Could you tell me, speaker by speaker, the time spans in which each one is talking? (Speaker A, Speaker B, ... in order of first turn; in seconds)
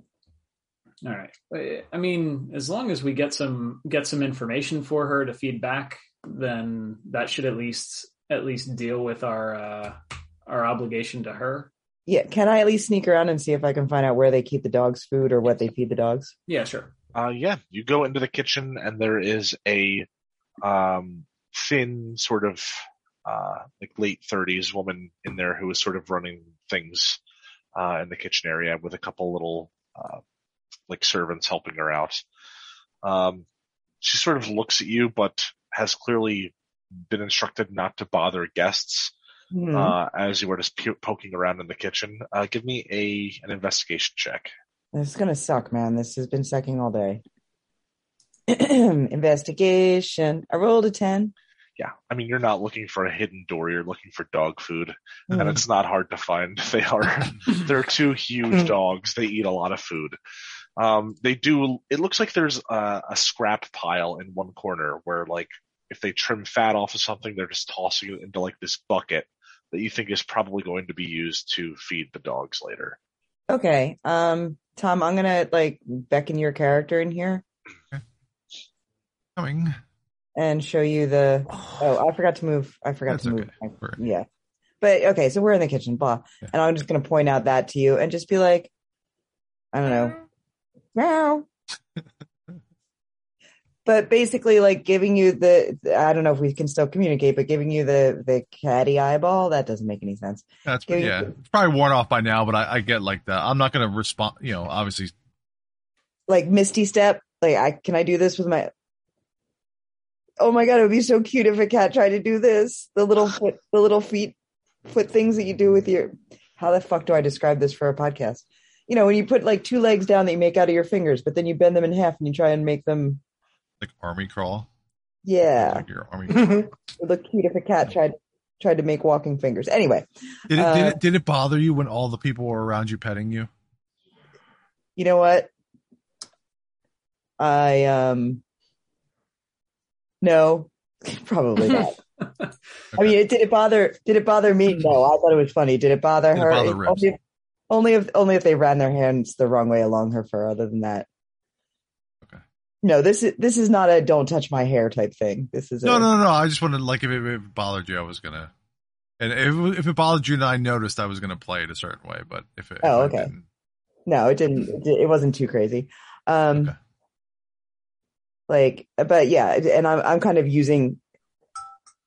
Speaker A: 1.0-11.7, 16.5-16.9
Speaker B: 12.1-16.3, 39.5-39.9, 44.9-47.2, 48.5-51.3, 55.3-55.6, 73.5-77.4, 80.3-84.2, 84.8-88.7, 89.7-90.2, 90.9-91.5, 93.8-101.3, 106.3-108.7, 110.4-114.3, 114.8-123.2, 125.2-125.8, 127.0-131.0, 134.9-135.5, 137.4-138.4, 140.2-142.0, 142.9-147.2, 147.7-151.1, 152.8-156.1, 162.8-163.3, 164.1-166.7, 168.5-171.0
Speaker C: 17.1-20.1, 20.6-27.2, 27.7-30.2, 30.9-32.2, 33.0-33.4, 34.0-36.5, 37.1-39.1, 39.7-44.5, 51.8-60.2, 60.8-73.0
Speaker D: 79.3-79.8, 83.1-84.0, 100.7-105.1, 123.8-124.7, 125.6-126.7, 130.5-133.5, 146.3-147.1, 155.8-158.5, 159.2-163.4